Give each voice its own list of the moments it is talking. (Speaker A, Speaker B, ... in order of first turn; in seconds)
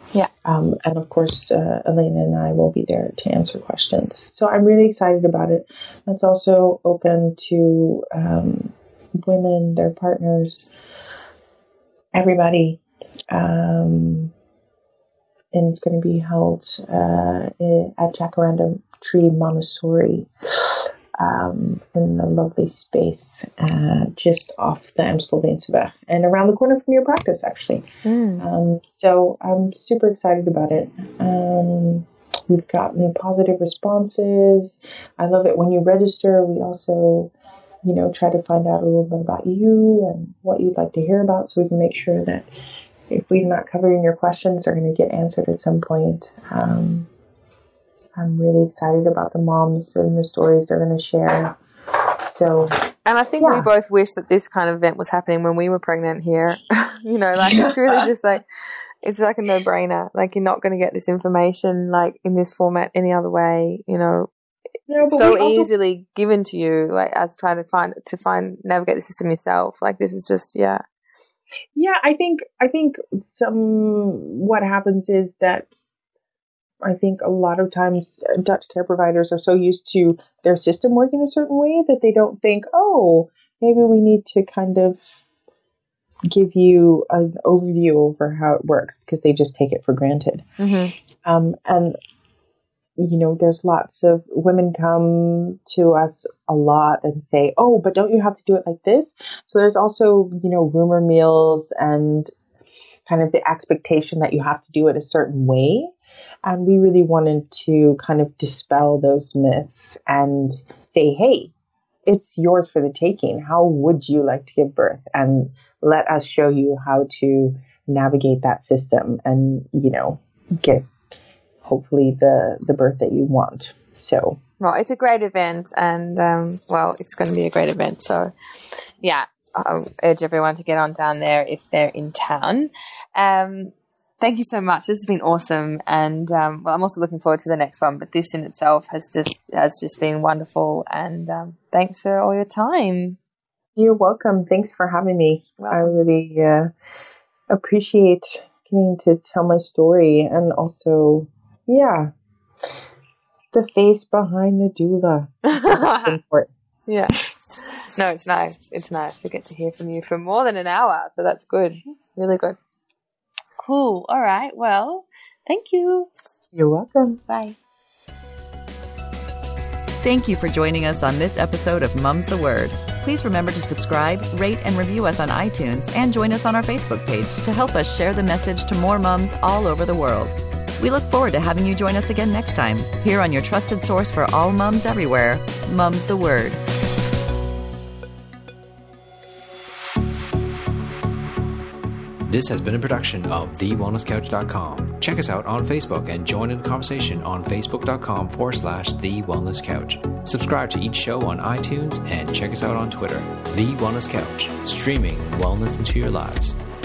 Speaker A: 0.4-10.7, 12.1-14.3, 15.5-27.9, 28.4-37.3, 37.8-42.5, 43.1-47.1, 48.1-51.5, 52.2-52.8, 53.4-53.7, 57.4-58.0, 64.9-65.7, 71.7-75.7, 76.8-85.0, 86.3-90.4, 91.2-91.9, 93.0-102.3, 103.0-105.9, 106.4-111.5, 112.1-120.8, 121.6-124.4, 143.8-146.7, 147.5-152.1, 153.5-156.5, 166.5-167.2
Speaker B: 28.1-28.4, 53.0-58.4, 59.0-64.3, 65.0-70.8, 90.6-90.9, 124.6-128.3, 129.0-143.2, 145.6-146.0, 155.5-156.2, 156.9-162.6, 163.6-166.1, 167.3-167.6
Speaker C: 170.0-186.6
Speaker D: 192.3-206.6